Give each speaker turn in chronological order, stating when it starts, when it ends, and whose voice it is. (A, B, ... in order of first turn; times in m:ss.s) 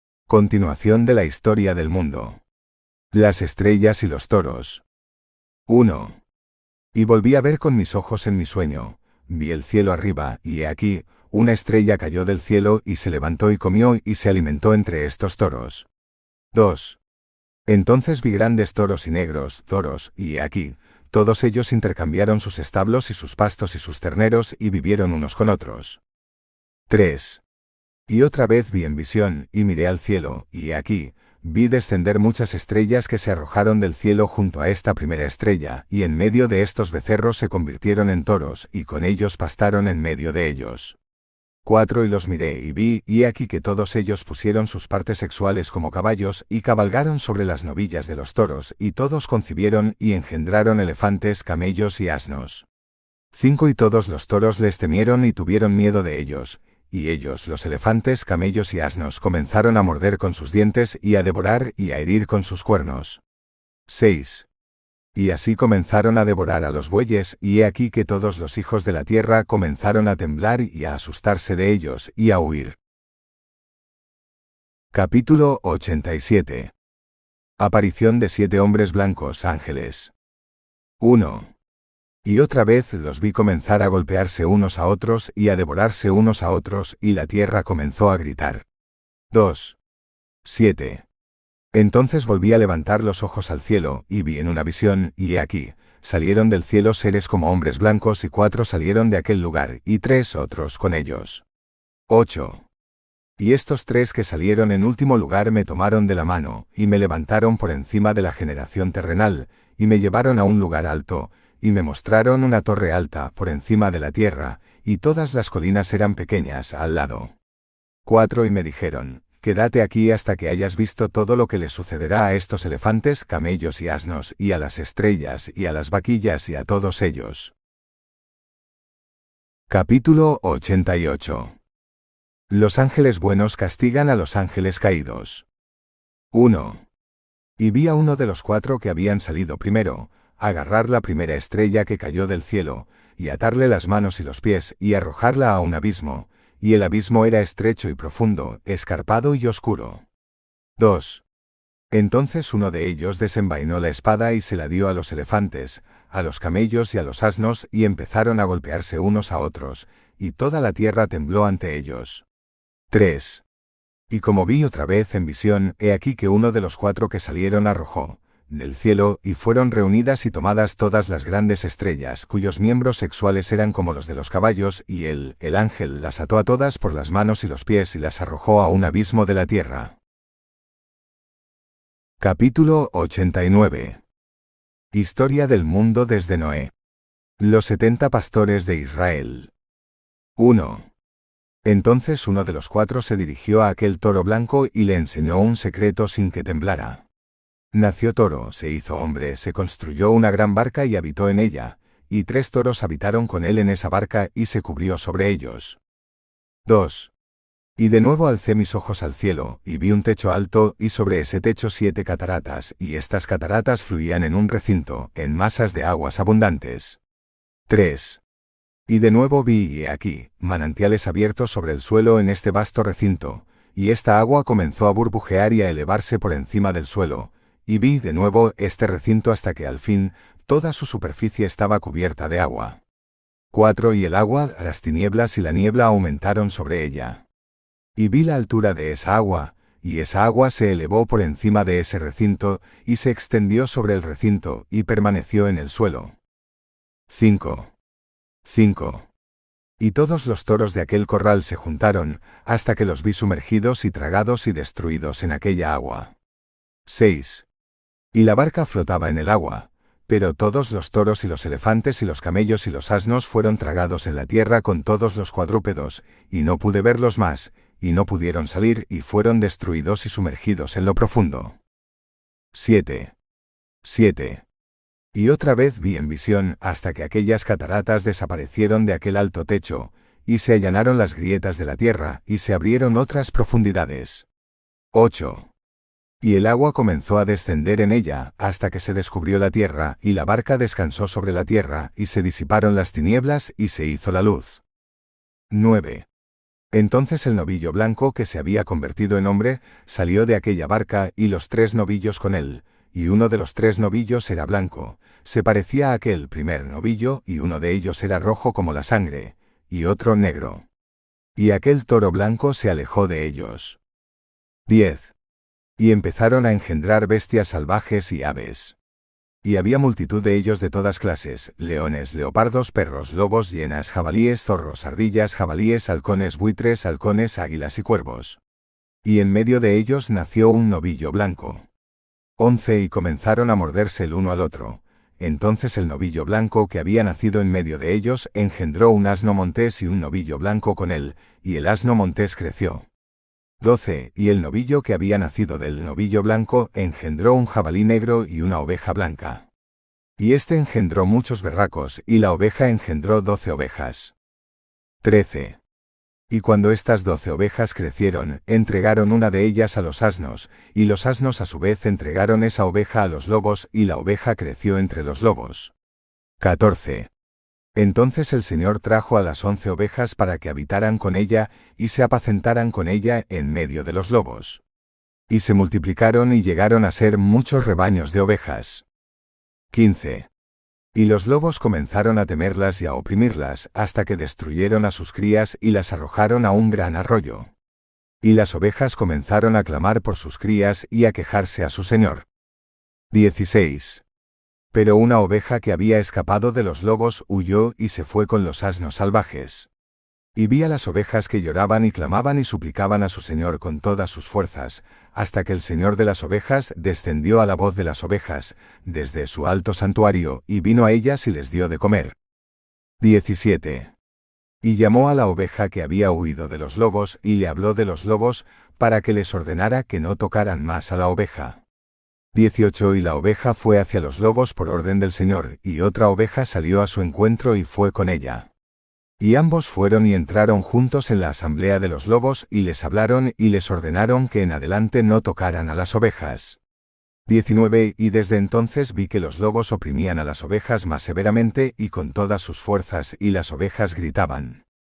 0:00.3-0:02.4 A
0:03.1-0:04.8 A
0:05.7-0:06.2 A
0:06.9-0:15.9 A
0:16.5-0:17.0 A
0:17.7-0:26.0 A
0:26.9-0:27.4 A
0:28.1-0:41.0 A
0:41.6-0:52.7 A
0:53.3-1:03.2 A
1:03.9-1:04.5 A
1:05.1-1:12.8 A
1:14.9-1:16.7 A
1:17.6-1:20.1 A
1:21.0-1:21.5 A
1:22.2-1:28.6 A
1:29.3-1:29.8 A
1:30.4-1:31.0 A
1:31.7-1:41.4 A
1:42.1-1:42.6 A
1:43.4-1:57.3 A
1:58.0-2:07.5 A
2:09.7-2:11.6 A
2:12.5-2:15.4 A
2:16.3-2:16.8 A
2:17.6-2:30.0 A
2:30.8-2:31.2 A
2:31.9-2:42.2 A
2:42.9-2:43.4 A
2:44.1-3:00.0 A
3:02.2-3:04.0 A
3:04.9-3:06.7 A
3:07.4-3:09.5 A
3:10.4-3:10.9 A
3:11.6-3:17.0 A
3:17.7-3:25.8 A
3:26.6-3:27.1 A
3:27.8-3:37.0 A
3:37.7-3:38.2 A
3:38.9-3:52.8 A
3:53.5-3:57.2 A
3:58.0-4:06.2 A
4:07.1-4:07.7 A
4:08.4-4:09.1 A
4:09.8-4:16.1 A
4:16.8-4:17.4 A
4:18.1-4:31.6 A
4:32.5-4:33.1 A
4:33.8-4:34.4 A
4:35.1-4:44.3 A
4:44.9-4:45.5 A
4:46.2-4:54.6 A
4:55.5-4:56.1 A
4:56.7-5:10.6 A
5:11.4-5:13.8 A
5:14.7-5:15.1 A
5:15.8-5:18.8 A
5:19.4-5:28.4 A
5:29.0-5:31.7 A
5:32.4-5:42.9 A
5:43.6-5:49.5 A
5:50.2-5:54.1 A
5:55.0-5:55.6 A
5:56.3-6:05.7 A
6:06.4-6:07.1 A
6:07.8-6:14.6 A
6:15.3-6:18.8 A
6:19.7-6:20.3 A
6:20.9-6:27.5 A
6:28.2-6:32.3 A
6:33.1-6:34.0 A
6:34.7-6:39.7 A
6:40.3-6:52.2 A
6:53.0-6:53.9 A
6:54.6-7:01.6 A
7:02.3-7:08.5 A
7:09.2-7:16.6 A
7:17.2-7:24.6 A